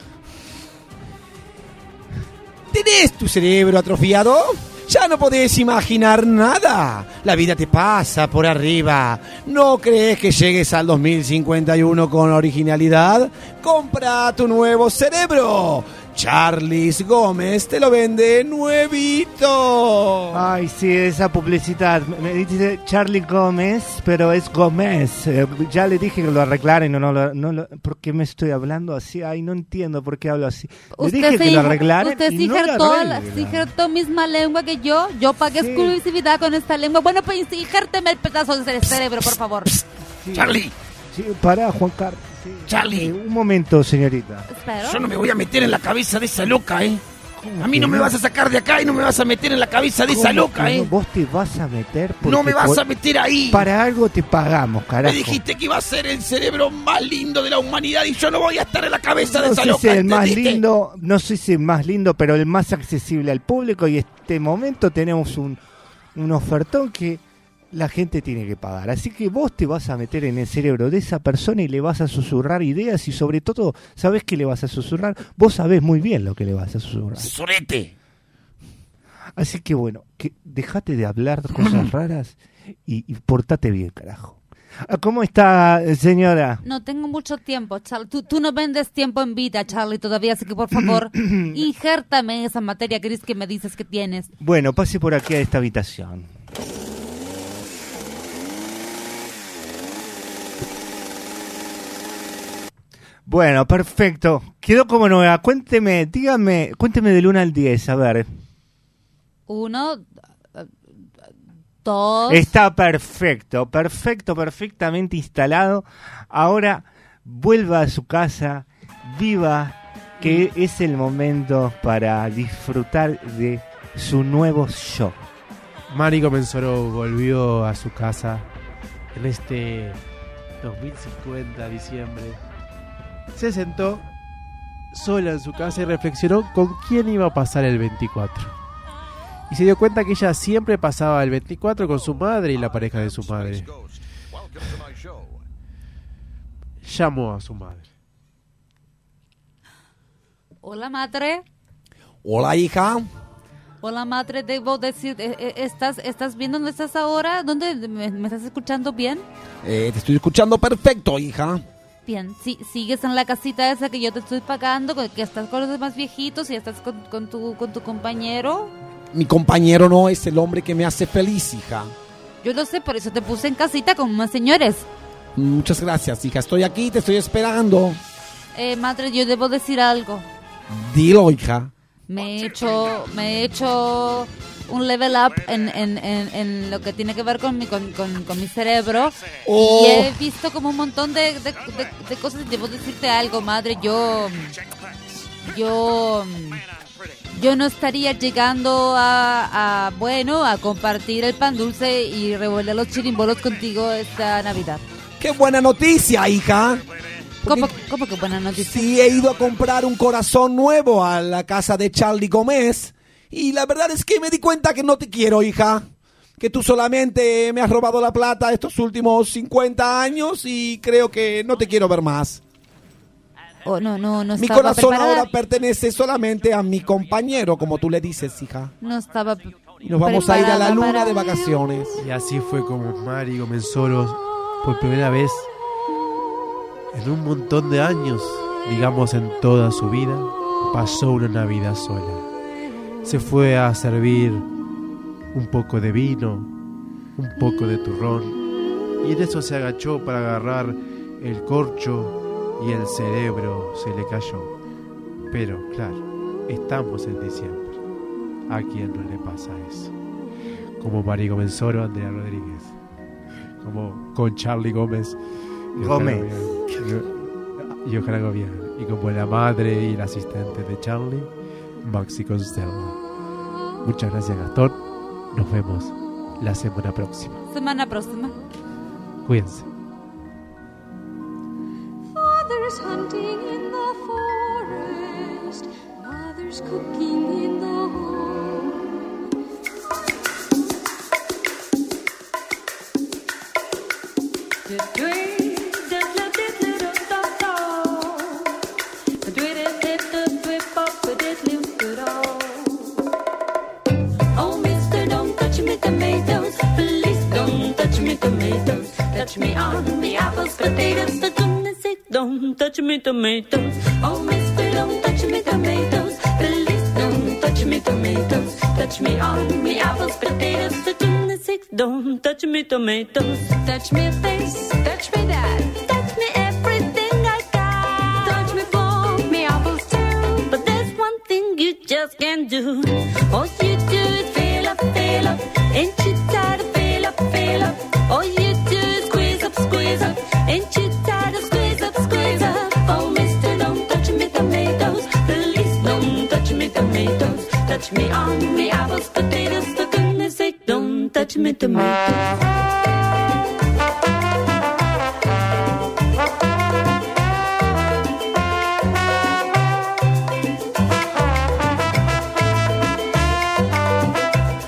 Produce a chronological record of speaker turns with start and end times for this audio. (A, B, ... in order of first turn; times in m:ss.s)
0:02.7-0:20.5 A
0:20.3-0:33.7 B
0:30.9-0:39.7 C
0:35.5-0:36.0 B
0:40.1-0:44.5 B
0:40.3-0:40.7 A
0:42.7-0:43.1 A
0:44.5-0:45.1 C
0:44.8-0:47.0 A
0:47.4-0:48.2 B
0:47.6-0:50.9 A
0:50.0-0:52.8 B
0:52.2-0:53.7 A
0:53.5-0:55.4 B
0:55.0-1:00.6 A
0:59.2-1:05.6 B
1:06.1-1:17.3 B
1:17.2-1:17.9 A
1:19.4-1:26.6 B
1:26.6-1:34.3 C
1:30.8-1:31.6 B
1:34.4-1:36.3 B
1:43.2-1:48.3 B
1:49.5-1:50.7 C
1:51.8-1:52.5 C
1:52.3-2:05.2 B
2:05.9-2:08.5 D
2:09.1-2:10.0 D
2:10.6-2:12.4 D
2:13.3-2:14.1 D
2:14.9-2:18.5 D
2:19.5-2:23.7 D
2:26.8-2:27.9 D
2:30.6-2:31.4 C
2:32.2-2:33.1 A
2:33.8-2:39.2 C
2:39.6-2:41.6 A
2:42.0-2:48.7 C
2:49.1-2:51.9 A
2:52.4-2:54.9 C
2:55.4-2:58.0 A
2:58.5-3:00.2 C
3:00.7-3:01.7 A
3:02.1-3:14.6 C
3:09.4-3:10.1 A
3:15.4-3:16.6 C
3:17.3-3:24.8 C
3:25.2-3:26.8 A
3:27.4-3:27.7 A
3:27.4-3:28.9 C
3:28.6-3:35.9 A
3:36.4-3:42.4 A
3:43.6-3:45.3 C
3:44.4-3:48.7 A
3:48.8-3:51.2 C
3:49.8-3:52.0 A
3:52.0-3:55.5 D
3:56.9-4:02.2 D
4:03.0-4:04.5 D
4:05.3-4:06.5 D
4:07.2-4:08.4 D
4:09.0-4:14.5 D
4:15.3-4:17.8 D
4:18.5-4:19.9 D
4:20.8-4:22.8 D
4:23.6-4:25.2 D
4:25.8-4:26.5 B
4:25.8-4:27.1 D
4:27.7-4:31.3 D
4:31.8-4:33.0 D
4:33.8-4:34.8 D
4:35.3-4:37.4 D
4:37.5-4:38.4 C
4:39.2-4:39.7 D
4:42.1-4:48.8 E
4:54.6-4:58.6 F
4:59.2-5:03.0 F
5:04.3-5:52.4 F